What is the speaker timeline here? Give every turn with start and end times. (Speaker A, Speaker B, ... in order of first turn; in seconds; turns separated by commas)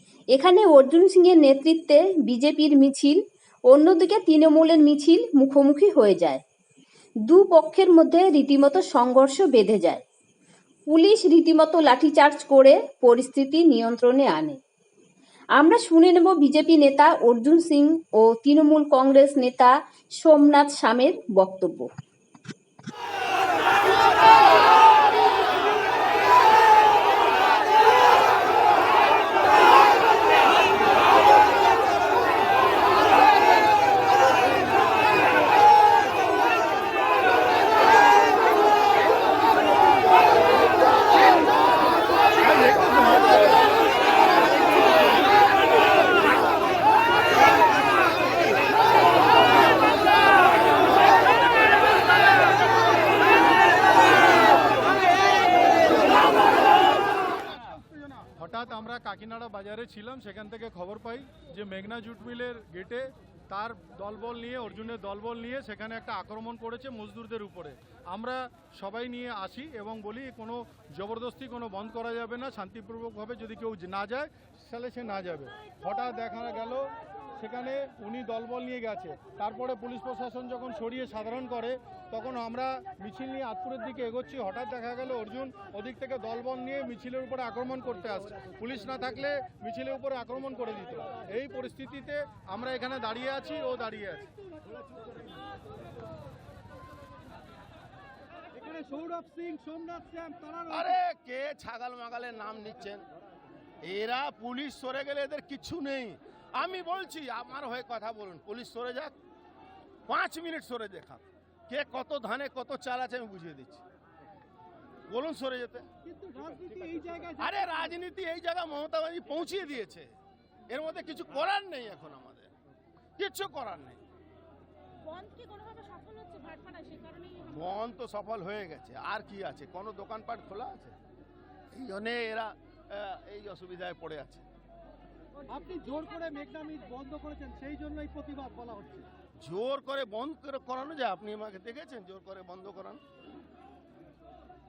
Speaker A: 0.3-6.4, Speaker A: 7.3-10.0, Speaker A: 10.9-14.6, Speaker A: 15.6-21.9, Speaker B: 58.2-94.3, Speaker C: 98.6-100.6, Speaker D: 100.6-103.0, Speaker D: 103.8-109.1, Speaker D: 110.1-113.8, Speaker D: 115.1-115.9, Speaker C: 116.1-117.3, Speaker D: 117.3-120.1, Speaker D: 120.7-122.5, Speaker D: 123.2-124.0, Speaker E: 125.1-127.3, Speaker D: 127.3-130.9, Speaker D: 131.7-134.4, Speaker C: 135.5-139.1, Speaker D: 139.4-143.0